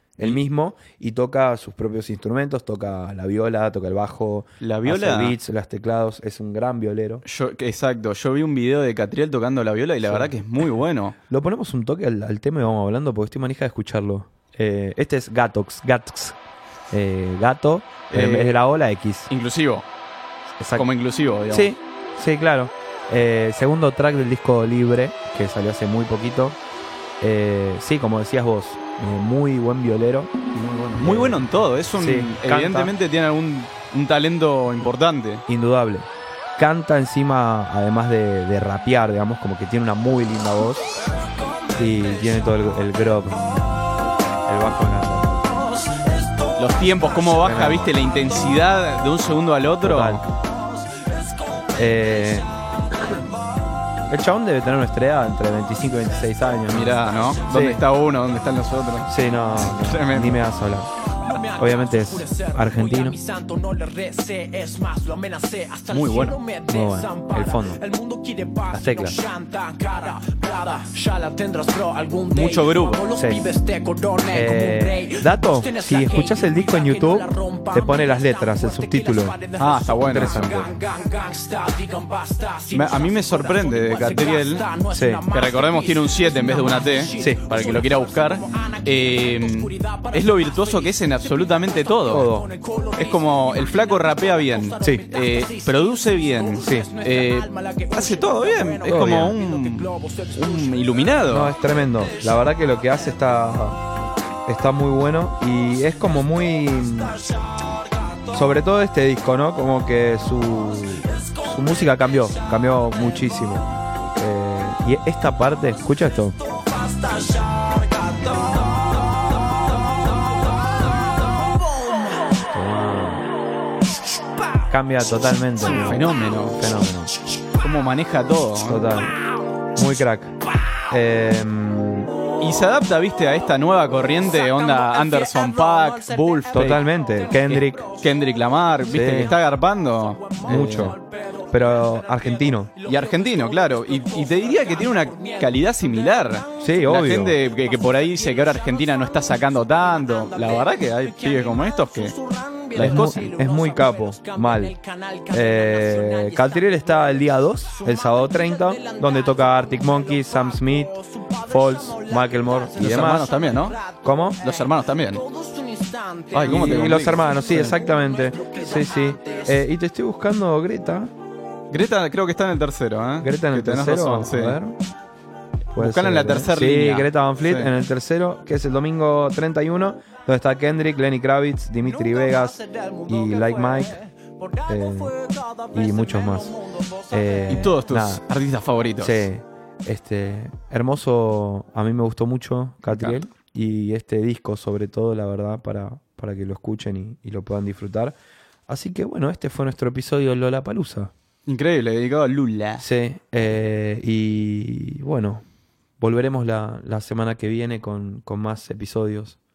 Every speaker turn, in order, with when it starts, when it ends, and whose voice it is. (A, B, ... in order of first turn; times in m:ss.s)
0:00.2-0:07.2 A
0:04.6-0:05.4 B
0:07.2-0:11.2 B
0:10.0-0:10.3 A
0:11.3-0:16.4 A
0:16.9-0:19.3 A
0:18.1-0:18.6 B
0:19.3-0:19.9 B
0:20.6-0:20.8 A
0:20.8-0:21.7 B
0:21.5-0:26.6 A
0:27.2-0:30.3 A
0:30.5-0:35.4 B
0:31.0-0:31.5 A
0:32.0-0:32.9 A
0:35.5-0:41.0 A
0:41.8-0:43.6 A
0:44.5-0:45.8 A
0:46.6-0:50.2 B
0:47.4-0:48.0 A
0:49.8-0:50.3 A
0:51.8-0:52.5 A
0:54.1-0:57.8 A
0:56.7-1:00.4 B
0:59.1-1:00.9 A
1:01.3-1:16.4 C
1:01.6-1:03.2 A
1:05.9-1:06.4 B
1:06.7-1:07.8 A
1:08.7-1:09.2 A
1:12.3-1:13.1 B
1:13.1-1:13.5 A
1:14.3-1:19.4 A
1:17.0-1:19.6 C
1:19.6-1:20.6 B
1:20.1-1:20.7 A
1:20.4-1:28.8 C
1:22.7-1:24.7 B
1:24.9-1:25.2 A
1:25.3-1:32.3 B
1:27.2-1:27.4 A
1:29.6-1:30.1 C
1:32.1-1:32.5 A
1:32.3-1:33.4 C
1:33.0-1:41.5 B
1:34.6-1:35.6 C
1:36.6-1:39.0 C
1:36.6-1:36.9 A
1:38.9-1:39.4 A
1:39.8-1:40.3 C
1:41.3-1:43.8 A
1:44.5-1:47.2 A
1:48.3-1:56.4 A
1:56.9-1:58.8 C
2:01.3-2:02.3 C
2:02.5-2:03.3 A
2:04.7-2:07.1 A
2:05.6-2:06.6 B
2:07.6-2:08.9 B
2:08.6-2:09.2 A
2:09.8-2:10.4 A
2:10.9-2:12.1 A
2:12.4-2:16.8 B
2:14.5-2:16.0 C
2:16.5-2:17.9 A
2:17.4-2:21.0 B
2:18.9-2:19.4 A
2:20.3-2:21.5 C
2:20.5-2:21.0 A
2:21.5-2:22.8 A
2:22.8-2:32.2 B
2:24.6-2:25.3 C
2:26.6-2:27.4 A
2:30.2-2:36.8 C
2:32.7-2:33.3 B
2:32.8-2:34.8 A
2:35.3-2:43.3 A
2:37.7-2:44.0 C
2:42.8-2:43.8 B
2:44.0-2:44.4 A
2:44.4-2:45.2 B
2:45.2-2:46.5 C
2:46.3-2:47.8 B
2:46.4-2:51.1 A
2:48.2-2:49.5 C
2:51.7-2:54.6 B
2:53.2-2:54.8 A
2:55.7-3:04.0 A
2:55.8-2:57.7 B
3:02.0-3:07.1 C
3:04.7-3:05.2 A
3:05.7-3:06.6 A
3:07.1-3:08.2 A
3:07.5-3:09.3 B
3:09.0-3:18.2 A
3:12.9-3:13.2 B
3:18.7-3:21.1 A
3:21.5-3:22.8 B
3:22.8-3:25.4 A
3:26.0-3:29.4 A